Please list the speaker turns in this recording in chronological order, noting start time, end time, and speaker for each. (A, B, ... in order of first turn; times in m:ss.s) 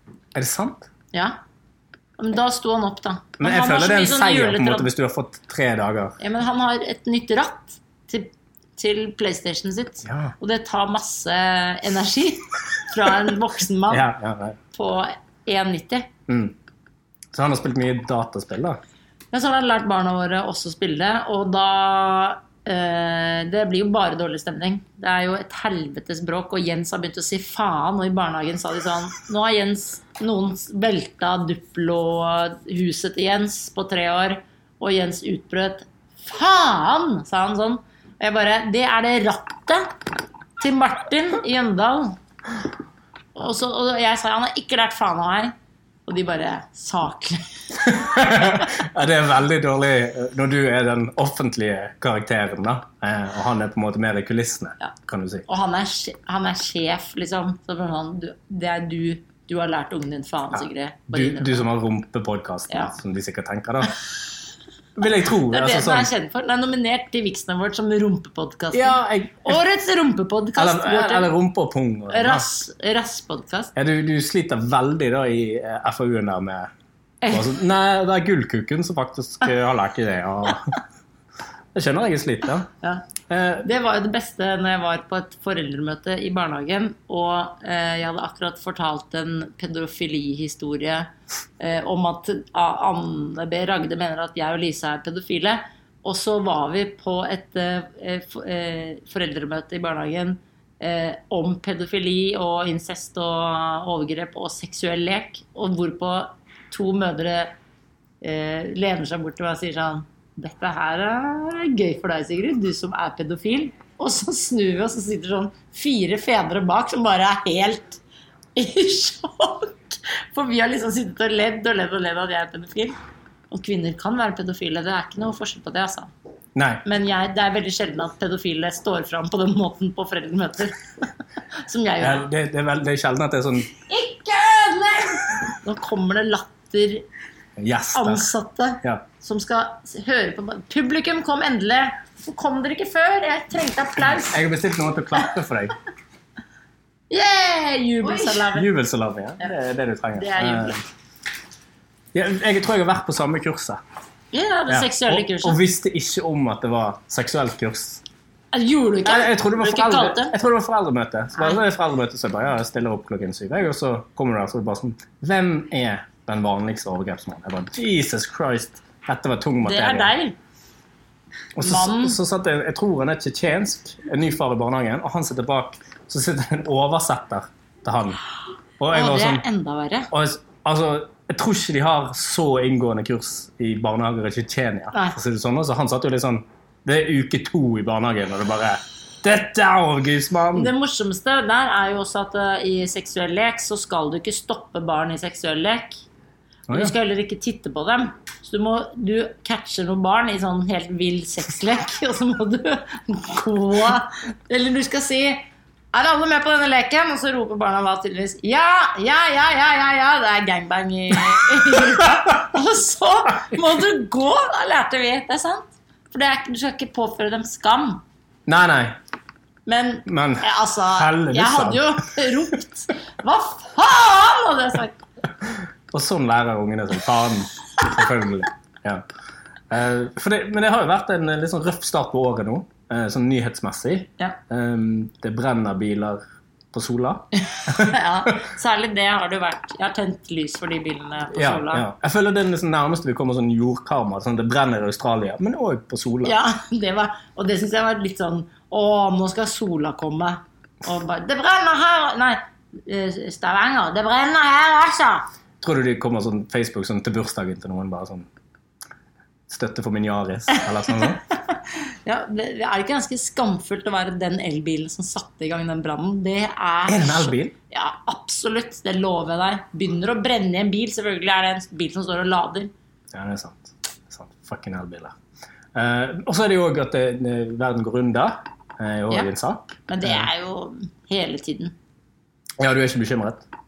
0:00.4-0:00.9 A
0:02.2-0:04.9 B
0:03.4-0:06.2 A
0:06.2-0:14.1 B
0:10.0-0:10.3 A
0:13.9-0:14.6 A
0:14.7-0:16.1 B
0:16.3-0:16.6 A
0:17.3-0:18.8 A
0:19.3-0:39.9 B
0:40.6-0:42.2 B
0:43.4-0:45.5 B
0:46.1-0:47.4 B
0:47.8-0:55.5 A
0:55.5-1:01.7 B
1:01.1-1:04.0 A
1:02.7-1:03.0 B
1:05.0-1:06.1 A
1:05.3-1:11.3 B
1:08.7-1:09.6 A
1:10.6-1:12.5 A
1:12.1-1:13.7 B
1:13.7-1:16.7 A
1:17.2-1:17.6 B
1:17.3-1:20.8 A
1:21.8-1:22.7 A
1:22.8-1:23.1 B
1:23.3-1:23.7 A
1:23.6-1:31.1 B
1:31.6-1:47.5 B
1:48.2-1:58.0 B
1:58.6-2:03.0 B
2:03.5-2:06.1 B
2:06.6-2:06.8 A
2:06.8-2:11.1 B
2:11.7-2:12.3 B
2:12.0-2:13.8 A
2:13.9-2:17.0 B
2:17.6-2:18.3 A
2:17.9-2:24.4 B
2:24.3-2:25.8 A
2:27.1-2:28.7 B
2:28.0-2:30.8 A
2:30.2-2:30.8 B
2:32.1-2:33.8 A
2:34.3-2:35.6 B
2:34.7-2:38.0 A
2:38.5-2:40.4 B
2:39.0-2:50.1 A
2:49.6-2:50.4 B
2:51.6-2:58.2 A
2:51.6-2:52.2 B
2:58.8-2:59.4 A
2:58.9-3:00.1 B
3:00.1-3:10.7 A
3:10.5-3:16.0 B
3:16.7-3:16.9 A
3:16.7-3:25.4 B
3:25.9-3:38.0 B
3:38.5-3:39.0 A
3:39.7-3:45.0 B
3:40.1-3:41.9 A
3:45.9-3:49.0 A
3:49.7-3:56.2 A
3:56.7-3:58.0 A
3:57.5-4:01.9 B
4:01.3-4:06.4 A
4:06.2-4:15.3 B
4:15.6-4:18.3 A
4:19.5-4:21.3 A
4:20.7-4:32.7 B
4:26.9-4:27.5 A
4:33.1-4:35.2 A
4:35.8-4:40.3 A
4:39.9-4:41.7 B
4:42.6-4:43.4 A